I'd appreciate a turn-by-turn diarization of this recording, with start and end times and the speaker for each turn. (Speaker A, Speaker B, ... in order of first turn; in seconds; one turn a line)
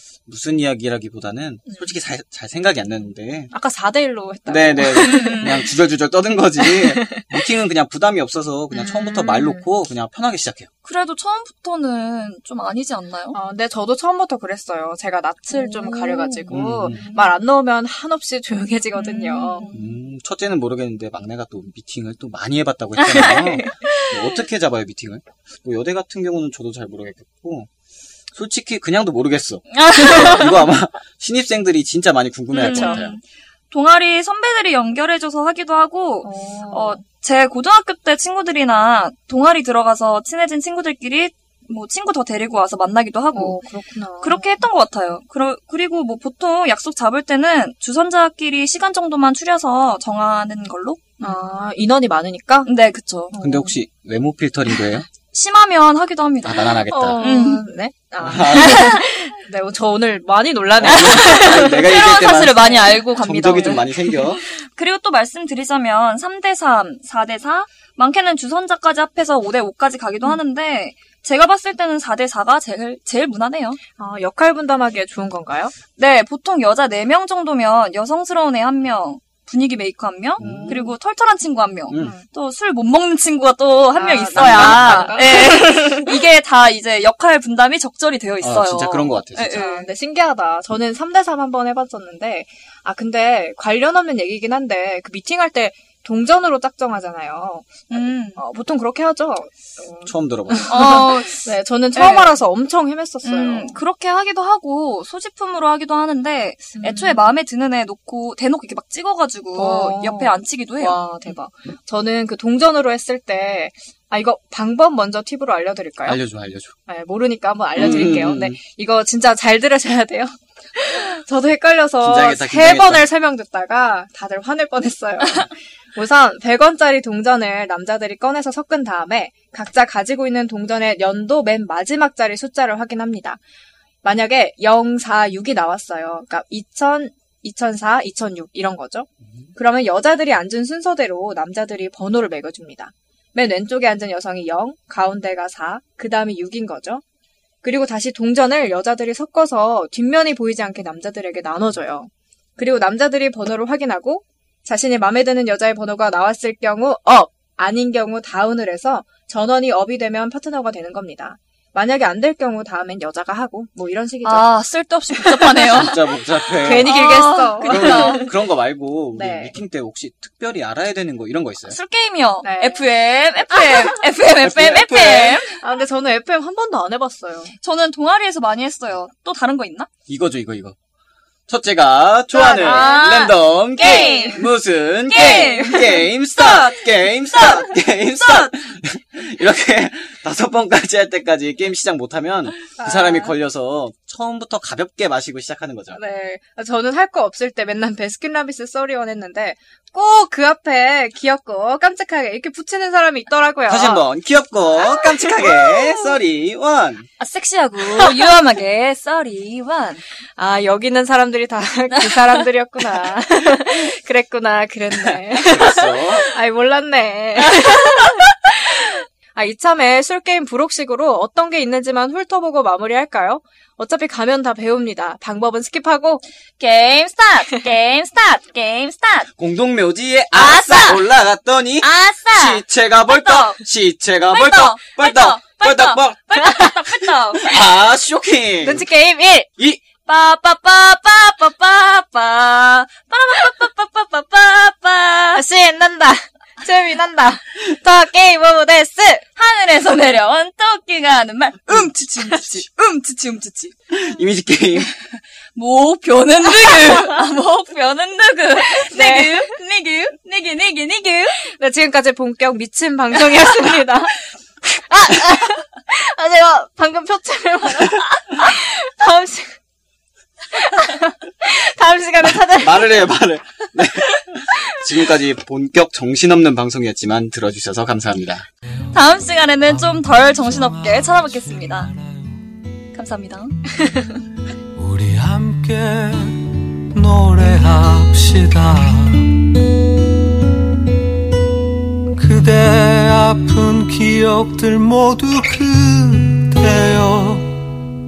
Speaker A: 0.3-3.5
Speaker B: 3.5-5.6
Speaker A: 4.5-10.7
Speaker C: 4.9-5.6
Speaker B: 6.6-7.3
Speaker B: 8.7-9.7
Speaker C: 10.8-13.4
Speaker B: 13.3-19.7
Speaker C: 15.5-17.4
Speaker A: 16.5-17.1
Speaker C: 18.9-19.9
Speaker A: 19.7-27.7
Speaker C: 23.0-24.1
Speaker A: 28.3-33.2
Speaker C: 29.7-30.7
Speaker C: 32.5-43.6
Speaker B: 32.6-33.0
Speaker B: 36.2-37.0
Speaker B: 43.3-44.6
Speaker C: 44.2-51.4
Speaker B: 51.2-52.7
Speaker C: 52.7-53.4
Speaker B: 53.3-53.8
Speaker A: 53.4-55.1
Speaker C: 55.3-57.6
Speaker A: 56.4-57.2
Speaker B: 56.9-61.9
Speaker A: 58.2-59.0
Speaker C: 58.4-59.0
Speaker A: 60.8-64.5
Speaker C: 60.8-73.8
Speaker B: 62.6-63.0
Speaker B: 74.0-75.8
Speaker C: 76.0-89.9
Speaker A: 80.4-80.8
Speaker B: 80.4-80.9
Speaker A: 81.9-82.2
Speaker B: 81.9-82.2
Speaker B: 83.9-86.1
Speaker A: 84.3-85.2
Speaker A: 88.4-89.6
Speaker B: 89.5-103.7
Speaker C: 97.9-98.4
Speaker A: 100.1-100.8
Speaker C: 100.7-102.4
Speaker C: 103.2-111.3
Speaker B: 106.8-107.2
Speaker B: 109.5-116.2
Speaker A: 116.1-116.7
Speaker B: 116.9-133.4
Speaker A: 117.8-118.6
Speaker A: 122.0-123.1
Speaker B: 134.0-147.0
Speaker B: 147.6-164.5
Speaker C: 164.2-168.3
Speaker B: 165.2-165.9
Speaker A: 165.7-167.0
Speaker B: 166.6-168.3
Speaker A: 167.6-171.8
Speaker B: 169.1-169.6
Speaker C: 171.7-175.6
Speaker B: 172.4-172.9
Speaker A: 174.4-175.4
Speaker B: 175.6-177.5
Speaker C: 177.6-179.9
Speaker A: 180.1-180.8
Speaker A: 181.5-196.0
Speaker B: 182.3-183.1
Speaker C: 182.4-184.5
Speaker B: 183.8-184.4
Speaker C: 185.1-188.5
Speaker B: 192.8-193.3
Speaker B: 195.9-204.1
Speaker A: 203.7-207.1
Speaker C: 205.2-206.1
Speaker C: 207.2-210.0
Speaker B: 210.4-226.2
Speaker C: 211.9-212.4
Speaker A: 215.3-216.3
Speaker C: 217.5-218.2
Speaker C: 226.6-229.3
Speaker A: 229.4-236.4
Speaker C: 230.3-231.1
Speaker C: 231.8-233.6
Speaker C: 234.3-237.5
Speaker A: 237.3-238.8
Speaker B: 238.6-239.5
Speaker C: 240.1-245.4
Speaker B: 245.3-249.2
Speaker C: 249.4-253.7
Speaker A: 253.9-254.9
Speaker C: 255.6-261.4
Speaker B: 258.9-259.5
Speaker B: 261.4-269.6
Speaker B: 270.5-273.0
Speaker A: 272.4-278.5
Speaker C: 278.9-281.9
Speaker D: 279.9-282.3
Speaker C: 282.9-283.8
Speaker D: 284.8-289.5
Speaker D: 292.1-297.7